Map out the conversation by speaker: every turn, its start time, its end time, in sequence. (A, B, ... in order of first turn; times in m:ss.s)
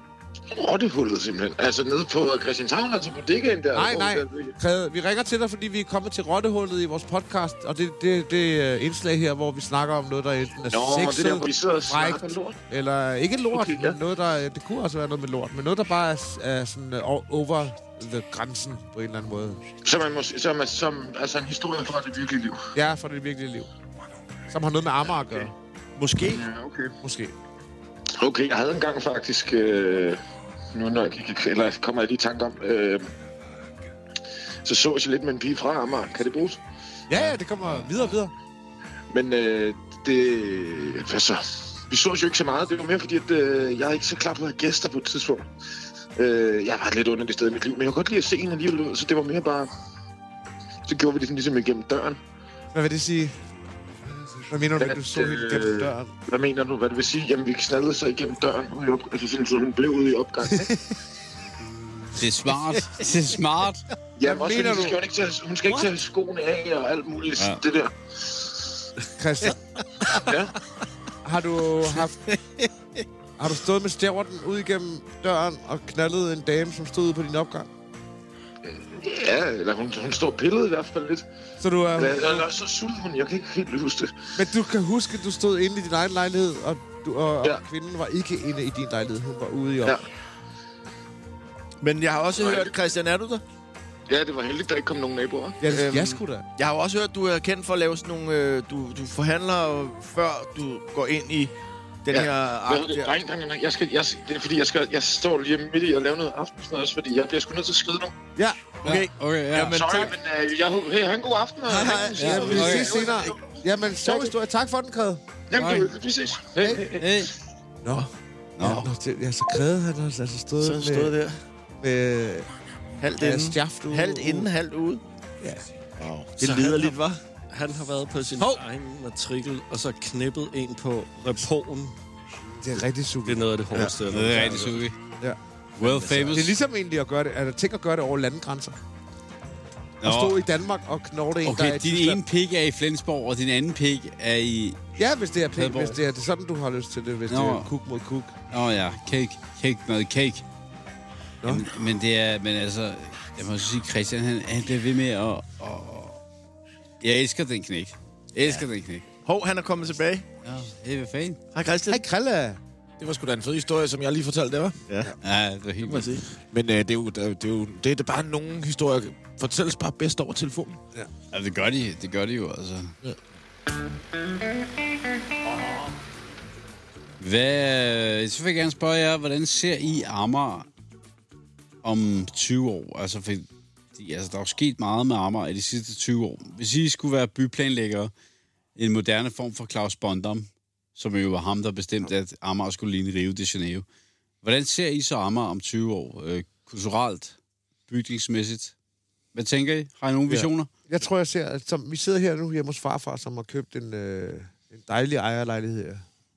0:00.5-0:04.5 A
0:03.7-0:19.6 B
0:10.7-0:12.6 A
0:13.5-0:14.0 A
0:19.8-0:22.7 A
0:22.7-0:23.7 B
0:24.5-0:25.5 B
0:26.0-0:26.4 C
0:26.2-0:26.9 A
0:27.0-0:27.3 B
0:28.2-0:30.2 A
0:30.7-0:33.1 A
0:34.6-0:36.6 A
0:37.1-0:38.3 B
0:37.2-0:38.0 D
0:39.1-0:45.4 A
0:46.2-0:49.7 A
0:50.9-0:52.2 A
0:52.7-0:53.3 B
0:54.5-0:56.1 B
0:54.8-1:00.7 A
1:00.5-1:00.8 B
1:01.7-1:03.8 D
1:04.2-1:08.6 A
1:04.2-1:05.0 B
1:09.0-1:09.6 B
1:10.2-1:10.5 A
1:11.2-1:12.2 B
1:12.3-1:12.7 C
1:13.4-1:17.7 B
1:18.7-1:21.2 A
1:21.6-1:22.4 B
1:22.0-1:24.2 A
1:24.4-1:30.0 B
1:31.8-1:33.4 C
1:32.4-1:32.7 A
1:34.1-1:35.6 A
1:35.6-1:36.4 B
1:35.7-1:41.5 C
1:42.0-1:43.0 C
1:42.1-1:48.1 A
1:48.8-1:50.2 C
1:48.8-1:49.8 D
1:49.7-1:53.3 A
1:51.7-1:53.1 C
1:51.9-1:55.2 B
1:52.2-1:53.0 D
1:54.0-1:54.3 A
1:55.5-1:57.2 A
1:55.6-1:55.9 D
1:56.6-1:56.8 B
1:57.0-1:57.3 D
1:57.8-1:58.1 B
1:58.6-1:58.9 D
1:58.6-2:01.1 B
2:00.6-2:01.4 C
2:01.8-2:02.5 B
2:03.0-2:05.0 C
2:03.2-2:04.5 B
2:06.0-2:06.4 E
2:06.4-2:07.2 C
2:06.4-2:06.9 B
2:07.5-2:12.0 F
2:12.6-2:14.7 B
2:13.2-2:14.8 F
2:14.1-2:14.9 D
2:15.8-2:16.5 D
2:15.8-2:16.4 C
2:16.3-2:18.8 B
2:20.0-2:20.4 D
2:20.0-2:22.2 B
2:21.4-2:24.8 D
2:25.0-2:28.3 B
2:25.5-2:26.0 D
2:27.3-2:27.7 D
2:28.5-2:30.4 D
2:31.4-2:36.2 D
2:37.0-2:39.0 D
2:39.2-2:40.2 C
2:40.4-2:41.4 D
2:41.5-2:42.0 C
2:41.9-2:42.6 B
2:43.0-2:44.8 E
2:44.9-2:45.2 C
2:45.2-2:46.2 D
2:45.8-2:46.3 C
2:46.5-2:50.8 E
2:51.3-2:53.0 D
2:57.2-3:00.7 D
3:01.8-3:08.1 D
3:08.8-3:13.8 D
3:14.4-3:17.4 D
3:17.9-3:18.7 D
3:19.3-3:20.7 D
3:20.3-3:26.0 B